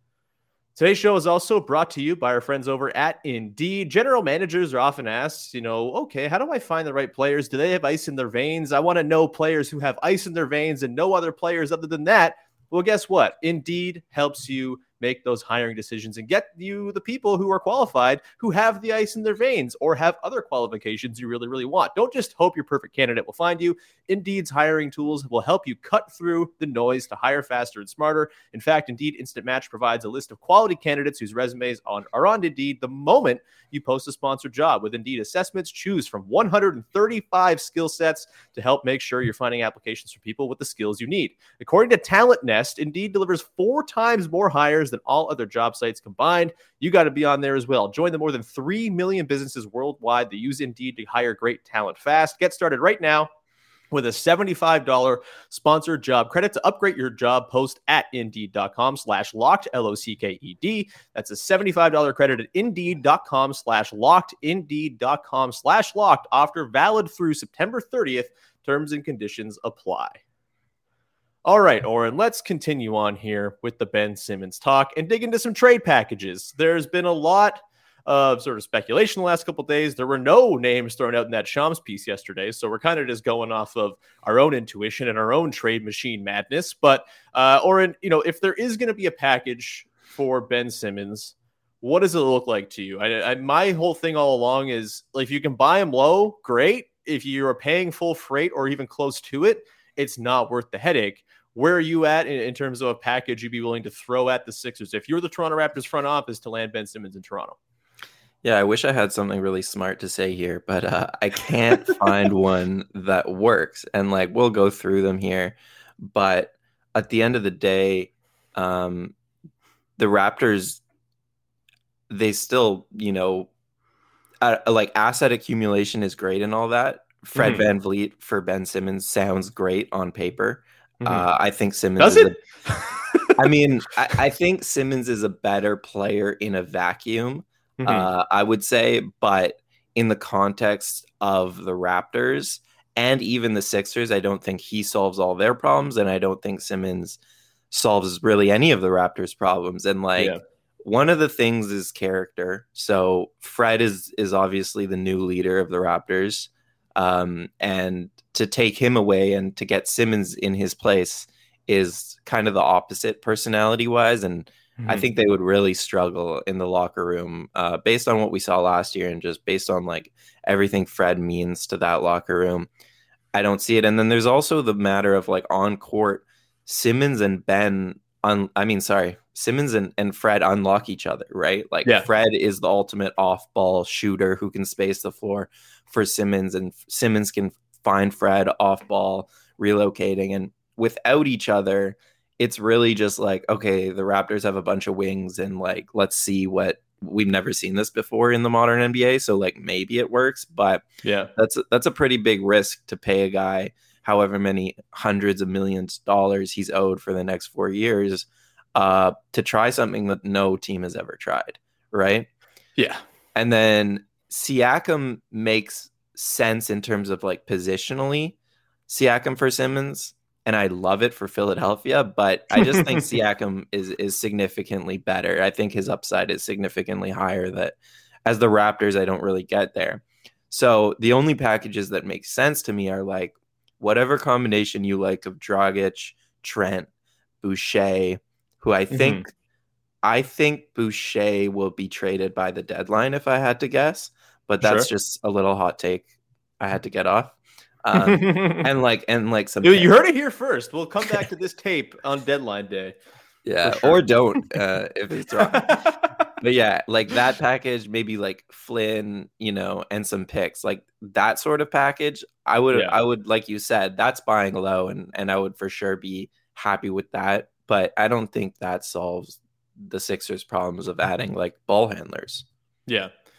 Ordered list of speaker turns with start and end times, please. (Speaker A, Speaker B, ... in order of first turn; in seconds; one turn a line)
Speaker A: 0.8-53.3
Speaker A: 53.9-70.2
Speaker A: 71.5-107.6
Speaker B: 108.4-119.2
Speaker B: 120.0-120.8
Speaker B: 122.1-123.5
Speaker B: 124.4-132.4
Speaker A: 127.4-127.7
Speaker A: 132.0-133.3
Speaker B: 133.4-147.2
Speaker A: 137.8-138.1
Speaker B: 147.7-172.7
Speaker A: 164.8-165.1
Speaker B: 173.3-212.3
Speaker A: 201.0-201.3
Speaker B: 213.3-218.4
Speaker B: 218.9-236.9
Speaker A: 222.5-223.1
Speaker B: 237.4-239.3
Speaker A: 238.9-239.2
Speaker B: 240.0-249.9
Speaker A: 244.6-244.9
Speaker A: 247.9-248.6
Speaker A: 249.6-253.0
Speaker B: 253.4-272.4
Speaker A: 253.6-254.5
Speaker A: 255.5-256.2
Speaker A: 262.7-263.0
Speaker A: 272.9-273.1